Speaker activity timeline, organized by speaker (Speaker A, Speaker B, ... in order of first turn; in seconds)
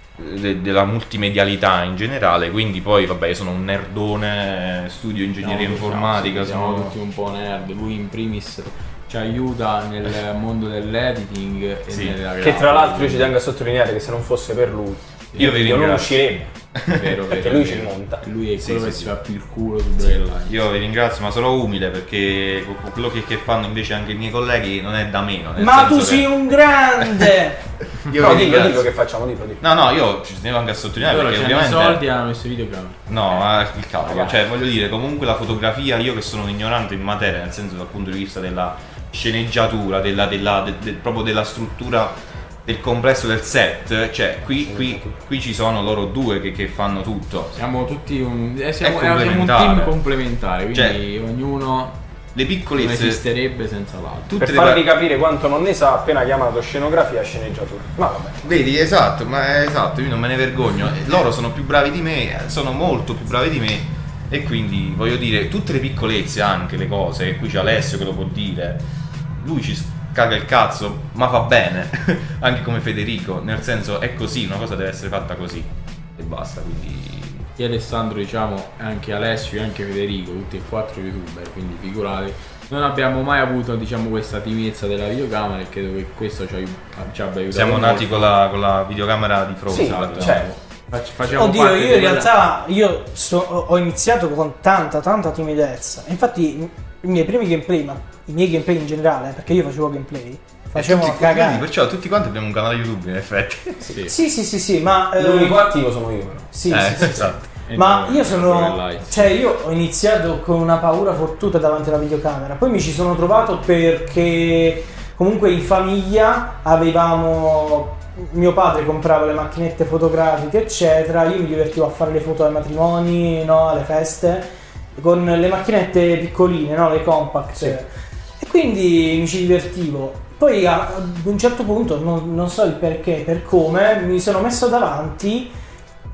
Speaker A: 0.2-6.9, 11.9-12.2, 15.3-16.2, 16.7-17.2, 18.6-19.1, 20.4-26.3, 27.0-27.3, 28.0-28.9, 29.6-32.0, 33.1-47.5, 48.8-50.0, 50.7-51.0, 52.3-53.2, 54.3-54.9, 58.4-68.8, 69.3-77.5, 87.5-90.5, 100.7-103.9, 106.7-107.5
Speaker B: 5.4-13.3, 16.9-20.6, 31.0-33.0, 34.0-34.3, 47.5-52.0, 52.7-54.4, 77.5-88.3, 89.7-92.3, 103.8-104.1, 107.7-109.3
Speaker C: 12.4-16.5, 17.3-18.2, 28.1-29.6, 44.6-45.1, 54.4-58.5, 89.7-90.5, 105.2-106.5
Speaker D: 25.6-27.6, 91.3-101.7, 104.0-105.7, 106.5-135.5